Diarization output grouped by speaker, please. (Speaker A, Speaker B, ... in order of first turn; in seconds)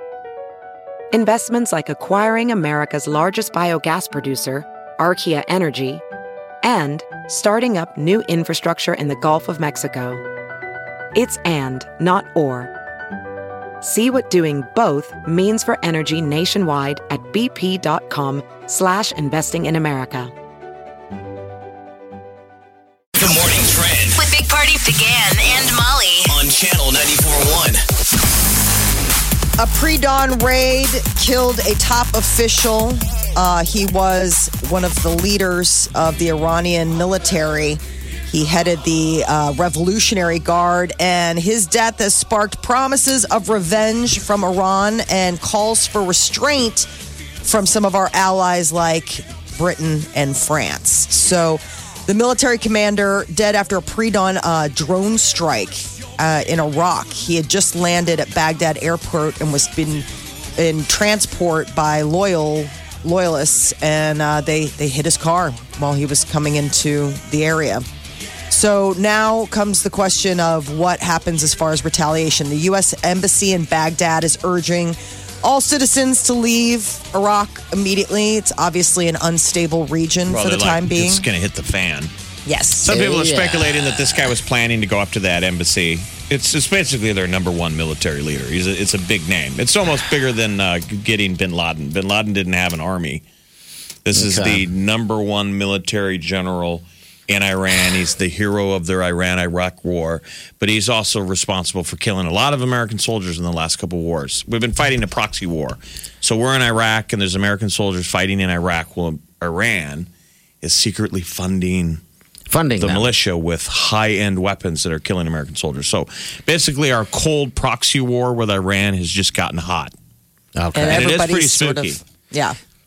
Speaker A: 1.1-6.0, 6.6-10.2, 11.1-12.7, 13.8-20.3
Speaker B: 23.2-24.2, 26.3-27.8
Speaker C: 24.2-26.3
Speaker D: 29.6-46.9, 47.4-60.0, 60.6-67.9, 68.5-81.3, 82.5-82.9, 120.8-122.6
Speaker E: 80.3-82.1, 82.8-93.2, 94.0-110.1, 110.6-112.0, 112.8-119.9, 120.8-122.0
Speaker F: 82.9-84.4, 94.1-94.7, 112.5-113.1, 120.6-121.1